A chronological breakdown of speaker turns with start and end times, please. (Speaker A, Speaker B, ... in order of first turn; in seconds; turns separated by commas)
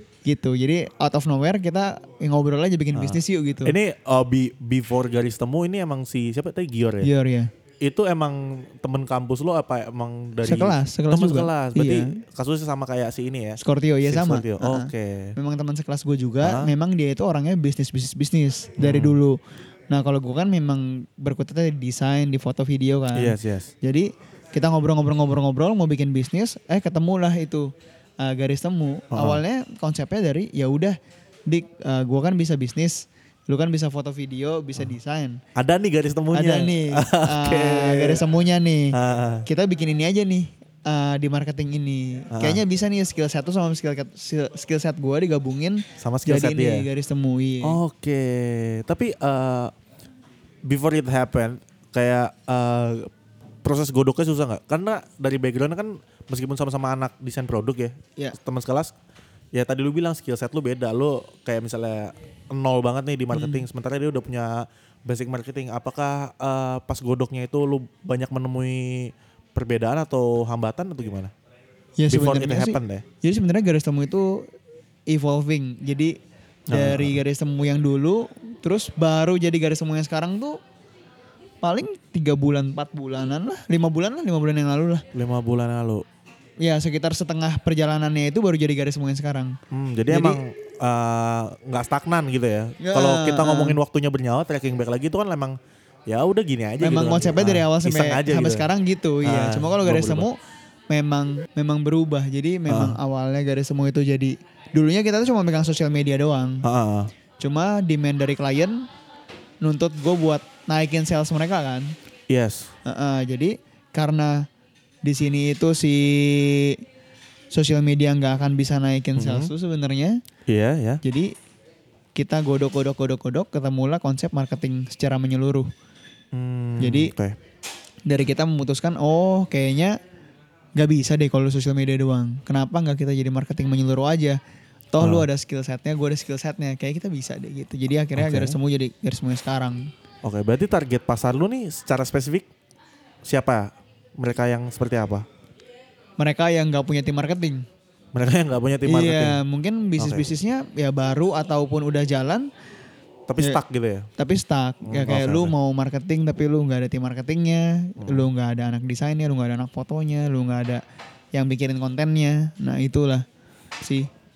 Speaker A: 0.2-3.8, Speaker B: 2.9-7.1, Speaker A: 7.0-7.5, Speaker B: 7.8-15.4, Speaker A: 10.4-12.2, Speaker A: 13.6-19.4, Speaker B: 16.4-16.7, Speaker B: 18.8-19.2, Speaker A: 19.9-31.0, Speaker B: 23.1-23.7, Speaker B: 29.1-29.4, Speaker A: 31.5-35.4, Speaker B: 35.5-38.2, Speaker A: 36.3-47.8, Speaker B: 38.9-39.5, Speaker B: 42.3-42.6, Speaker B: 46.0-46.9, Speaker B: 47.6-49.7, Speaker B: 50.7-53.1, Speaker B: 53.6-58.9, Speaker B: 59.5-71.3, Speaker A: 63.3-63.6, Speaker A: 72.0-74.5, Speaker B: 72.1-73.0, Speaker A: 75.1-76.2, Speaker B: 76.7-77.2, Speaker A: 76.7-80.6, Speaker A: 81.6-85.1, Speaker B: 85.1-86.0, Speaker A: 86.6-89.6, Speaker B: 89.7-98.7, Speaker A: 90.1-90.4, Speaker A: 92.8-93.8, Speaker A: 96.8-100.4, Speaker B: 99.2-100.3, Speaker A: 100.9-106.6, Speaker B: 102.7-103.0, Speaker B: 106.6-107.1, Speaker A: 107.4-108.9, Speaker A: 109.6-111.9, Speaker B: 112.3-112.7, Speaker A: 112.8-114.5, Speaker A: 115.0-116.8, Speaker A: 117.5-120.2, Speaker B: 119.2-119.5, Speaker B: 120.5-121.0, Speaker A: 121.0-121.3, Speaker A: 122.2-125.7, Speaker B: 126.3-127.4, Speaker A: 126.8-127.1, Speaker A: 128.1-130.0, Speaker A: 130.8-134.4, Speaker A: 134.9-139.9, Speaker B: 135.0-135.3, Speaker B: 138.2-138.6, Speaker B: 140.2-142.5, Speaker B: 143.2-145.3, Speaker A: 146.2-147.7, Speaker B: 148.1-149.4, Speaker A: 148.8-152.5, Speaker B: 150.0-150.3, Speaker B: 153.3-154.1, Speaker A: 154.2-160.8, Speaker B: 154.9-155.5, Speaker B: 158.0-158.3, Speaker A: 161.3-163.2, Speaker A: 163.8-164.1